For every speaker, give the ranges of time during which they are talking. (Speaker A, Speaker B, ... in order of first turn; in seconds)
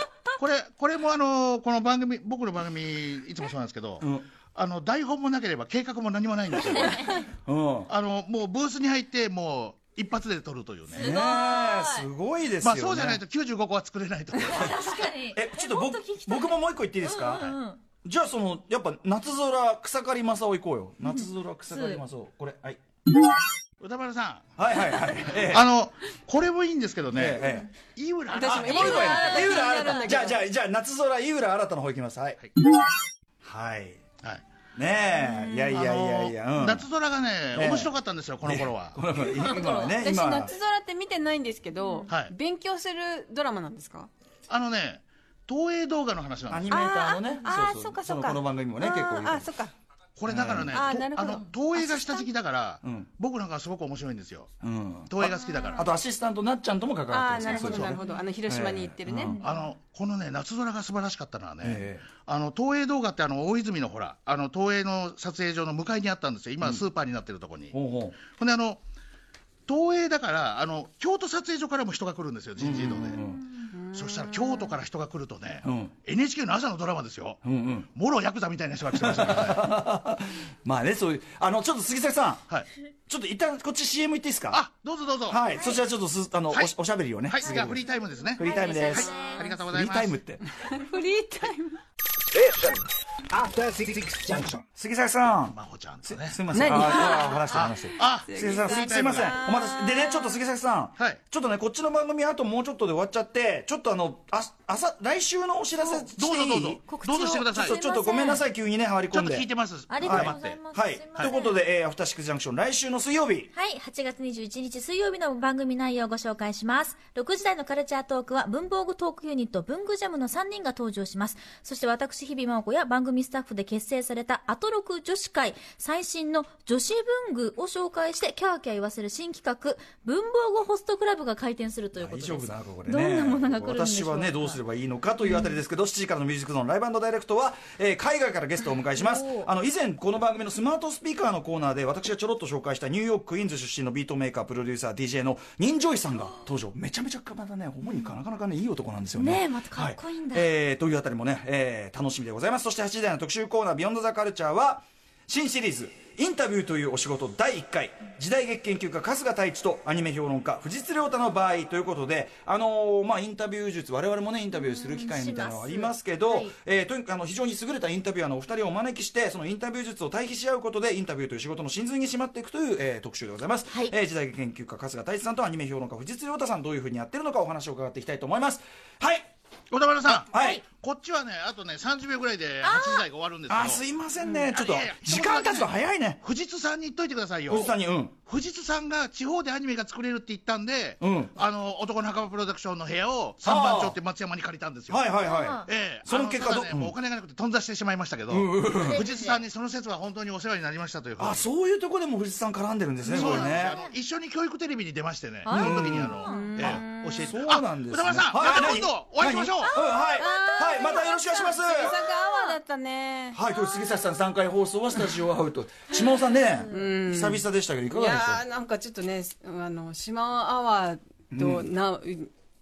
Speaker A: 0.3-7.2, 7.9-11.1, 12.6-14.8, 23.8-24.6, 25.4-29.6, 35.7-39.0, 44.5-46.8, 50.2-54.5, 55.1-55.9, 59.4-68.8, 69.7-73.2, 73.9-79.7, 84.5-85.4, 87.2-90.1, 95.5-99.4, 105.8-107.8, 109.1-110.6, 179.7-183.8, 184.5-185.7, 186.2-195.1, 195.6-201.5, 203.0-209.8
Speaker B: 4.0-4.2, 7.4-7.9, 10.9-13.2, 14.5-22.8, 24.6-25.7, 27.1-27.7, 28.4-32.4, 33.4-34.0, 34.7-36.9, 37.5-40.5, 46.5-49.5, 50.3-50.8, 52.8-53.1, 54.6-59.4, 61.6-62.0, 67.7-68.2, 72.6-73.7, 75.6-75.9, 77.4-77.9, 78.9-82.4, 83.1-84.6, 85.3-87.8, 88.3-90.4, 94.7-106.8, 107.5-109.5, 110.0-113.5, 131.9-179.3, 180.0-180.6, 183.5-186.2, 187.5-188.1, 191.0-191.3, 193.4-194.0, 194.9-196.9, 198.3-199.1, 201.2-203.8, 205.5-206.2, 207.2-212.0, 213.3-218.4, 221.3-221.7
Speaker C: 6.7-7.2, 10.9-12.1, 14.4-17.8, 21.1-22.0, 28.9-29.4, 39.4-39.9, 85.5-85.8, 88.4-89.5, 106.8-108.4, 109.9-111.6, 113.5-134.6, 135.2-135.6, 138.9-139.5, 149.1-150.5, 164.5-166.5, 180.3-180.6, 182.6-183.0, 195.2-195.7, 198.9-199.4, 203.2-203.5, 205.4-206.8, 209.7-211.6, 212.2-212.5, 216.6-216.9
Speaker D: 28.3-30.4, 39.3-44.1, 46.7-49.7, 50.7-52.3, 55.5-55.9, 57.1-59.4, 73.7-74.8, 90.6-91.8, 96.5-100.4, 206.2-207.4, 210.2-213.4, 216.7-222.3
Speaker E: 92.3-94.7